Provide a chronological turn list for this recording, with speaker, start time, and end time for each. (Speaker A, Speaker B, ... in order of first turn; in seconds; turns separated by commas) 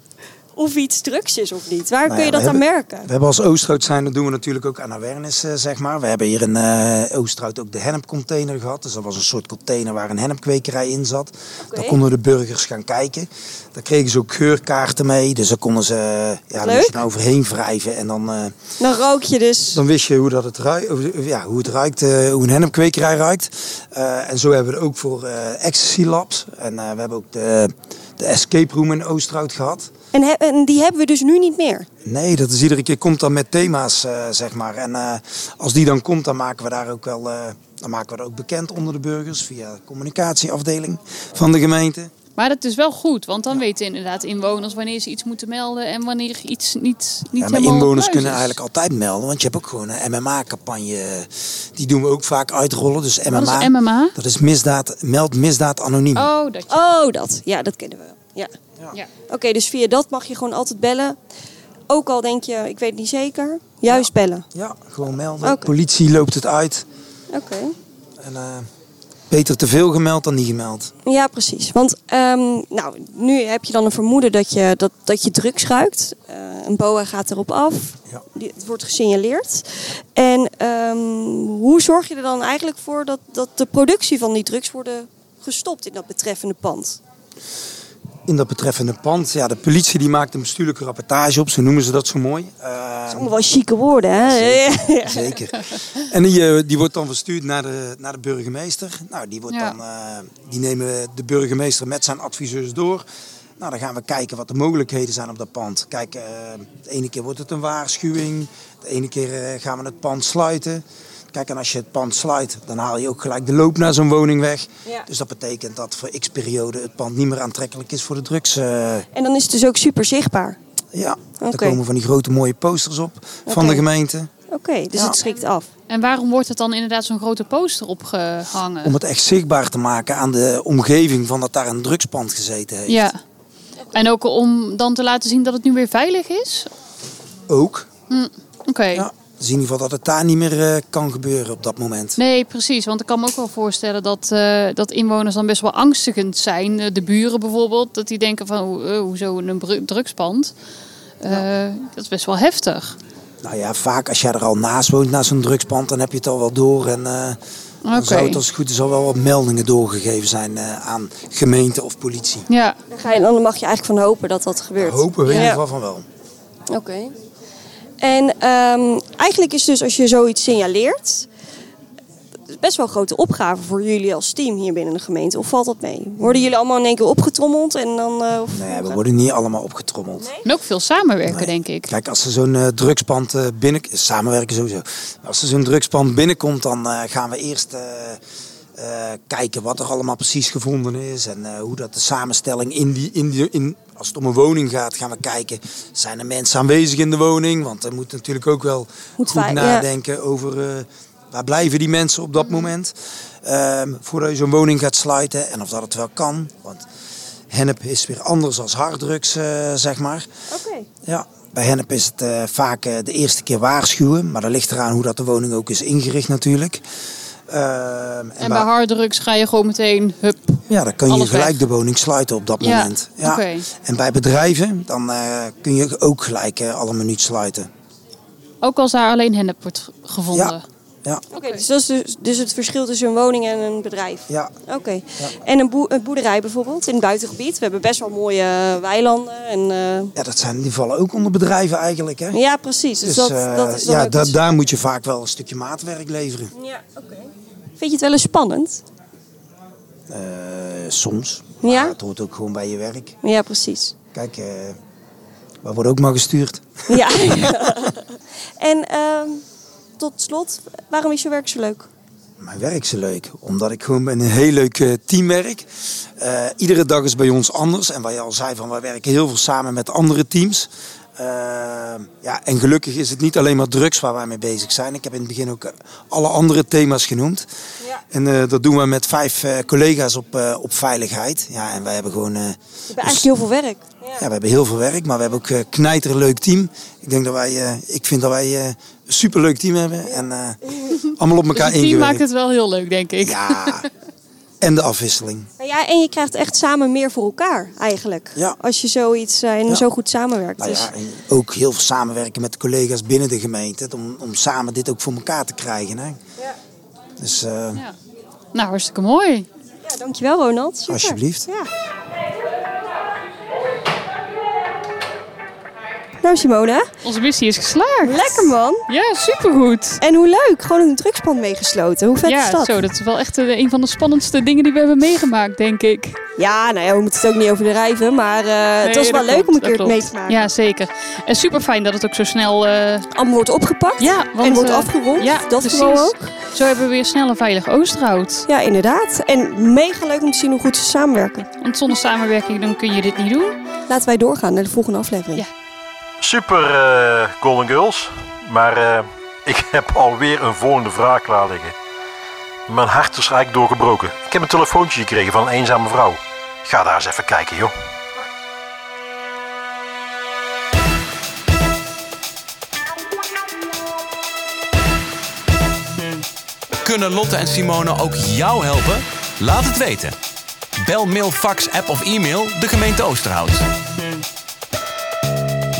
Speaker A: 0.5-3.1, Speaker B: 2.0-18.6, Speaker A: 11.6-12.0, Speaker A: 16.6-17.0, Speaker A: 18.8-19.8, Speaker B: 19.7-29.9, Speaker A: 30.1-31.9, Speaker B: 32.0-42.1, Speaker C: 42.4-48.6, Speaker B: 47.4-56.3, Speaker C: 53.3-54.1, Speaker C: 56.1-56.8, Speaker A: 56.7-58.5, Speaker A: 59.3-61.2, Speaker A: 61.9-64.4, Speaker B: 63.9-66.8, Speaker A: 65.4-65.7, Speaker A: 67.3-67.8, Speaker B: 68.2-68.7, Speaker B: 69.3-70.9, Speaker A: 71.0-87.0, Speaker B: 88.3-93.3, Speaker A: 93.1-95.4, Speaker B: 94.1-103.0, Speaker C: 99.5-99.8, Speaker B: 103.6-119.0, Speaker A: 119.1-120.6, Speaker B: 120.9-124.3, Speaker A: 121.4-121.8, Speaker A: 123.5-123.8, Speaker A: 124.5-125.7, Speaker C: 125.9-128.9, Speaker B: 128.8-133.1, Speaker C: 132.9-133.2, Speaker C: 133.9-136.7, Speaker B: 137.5-137.9, Speaker C: 138.1-139.1, Speaker B: 138.9-142.2, Speaker C: 142.2-150.5, Speaker C: 151.2-153.0, Speaker B: 153.4-157.4, Speaker C: 157.8-158.4, Speaker B: 157.9-162.5, Speaker C: 162.5-162.8, Speaker A: 162.9-165.6, Speaker B: 164.8-166.1, Speaker C: 165.2-165.5, Speaker A: 166.7-167.1, Speaker A: 168.0-171.2, Speaker A: 172.5-179.0, Speaker B: 178.5-180.3, Speaker C: 180.4-181.9, Speaker B: 181.3-188.2, Speaker B: 188.8-206.8, Speaker A: 199.2-199.9, Speaker B: 207.5-210.3, Speaker A: 210.5-210.9, Speaker B: 211.0-216.8, Speaker B: 217.5-218.7, Speaker C: 218.4-221.6, Speaker B: 220.7-227.7, Speaker C: 222.6-223.7, Speaker C: 228.6-230.6, Speaker B: 230.3-231.2, Speaker A: 231.3-240.1, Speaker B: 234.3-234.5, Speaker B: 240.2-242.4, Speaker A: 242.3-244.4, Speaker B: 243.0-246.5, Speaker A: 246.5-248.8, Speaker B: 250.1-253.2, Speaker A: 251.6-251.9, Speaker A: 253.2-253.9, Speaker B: 254.1-254.8, Speaker B: 255.6-257.1, Speaker A: 256.9-259.4, Speaker A: 260.0-261.9, Speaker B: 262.4-265.6, Speaker B: 266.2-277.5, Speaker B: 278.1-283.3, Speaker A: 282.9-284.2, Speaker B: 284.2-292.2, Speaker A: 290.1-290.7, Speaker C: 291.5-293.9, Speaker B: 293.2-293.9, Speaker B: 294.6-295.5, Speaker A: 295.6-300.9, Speaker B: 300.6-306.2, Speaker B: 307.2-307.8, Speaker C: 308.5-309.5, Speaker A: 309.8-311.7, Speaker B: 310.9-311.5, Speaker A: 316.2-316.9, Speaker C: 317.0-320.0, Speaker A: 318.0-318.8, Speaker A: 320.0-322.8, Speaker C: 322.2-326.2, Speaker A: 326.4-330.5, Speaker C: 328.8-333.1, Speaker A: 333.1-336.3, Speaker C: 334.0-338.5, Speaker A: 338.5-341.5, Speaker C: 341.6-343.6, Speaker A: 343.9-345.4, Speaker D: 346.2-351.8, Speaker D: 352.7-357.7, Speaker E: 366.8-370.1, Speaker E: 370.8-373.6